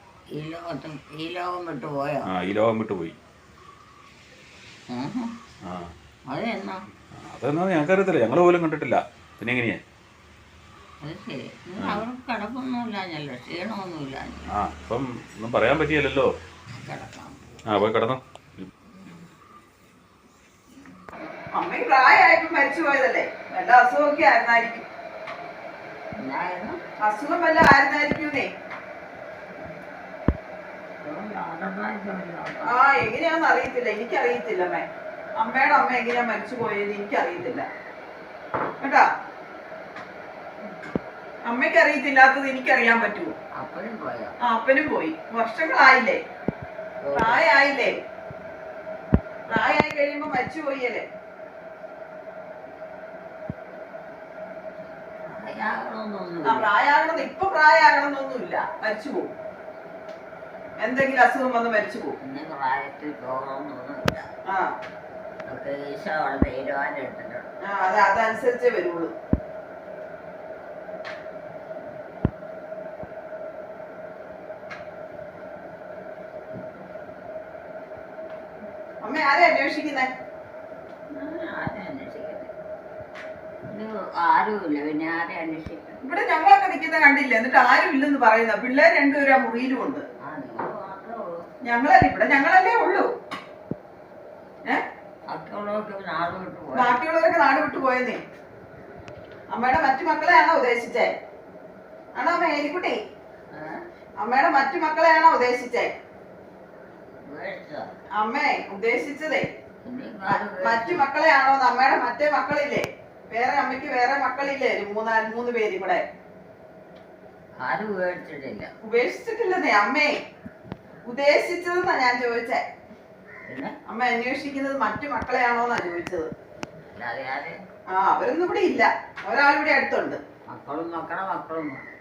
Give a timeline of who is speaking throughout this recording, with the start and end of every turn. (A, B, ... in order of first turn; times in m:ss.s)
0:00.4-0:02.3 A
0:02.3-0:03.2 B
0:04.9-0:05.3 A
0:05.6-0:05.9 B
0:06.3-0:06.8 A
0:07.2-0:09.8 B
0:11.0-0:14.5 A
0:11.8-0:12.0 B
0:14.6-0:16.3 B
0:16.7-0:17.4 A
0:17.7-0:18.7 B
0:18.9-0:19.2 A
0:21.6-0:24.8 C
0:26.2-0:26.8 A
0:27.0-0:28.5 C
0:31.0-0:32.8 A
0:32.7-0:34.9 C
0:35.4-0:37.7 C
0:41.5-0:43.4 C
0:43.6-0:44.4 A
0:44.5-0:46.2 C
0:47.0-0:47.4 A
0:47.1-0:47.9 C
0:49.5-0:51.1 C
0:55.3-0:56.7 A
0:56.4-0:59.3 C
1:00.8-1:02.2 C
1:02.2-1:04.3 A
1:05.5-1:07.5 A
1:07.7-1:09.1 C
1:19.0-1:20.1 C
1:21.1-1:22.5 A
1:23.7-1:26.0 A
1:26.0-1:30.0 C
1:30.2-1:31.4 A
1:31.6-1:33.1 C
1:35.3-1:37.0 A
1:36.7-1:38.2 C
1:39.5-1:41.1 C
1:42.2-1:43.0 C
1:43.5-1:43.8 A
1:44.2-1:45.9 C
1:47.2-1:47.9 A
1:48.2-1:49.5 C
1:49.8-1:51.1 A
1:50.3-1:56.0 C
1:57.6-1:58.7 A
1:58.8-2:00.1 C
2:01.1-2:02.6 C
2:03.5-2:03.8 A
2:03.9-2:06.3 C
2:06.9-2:07.6 A
2:07.9-2:10.2 C
2:10.5-2:11.8 A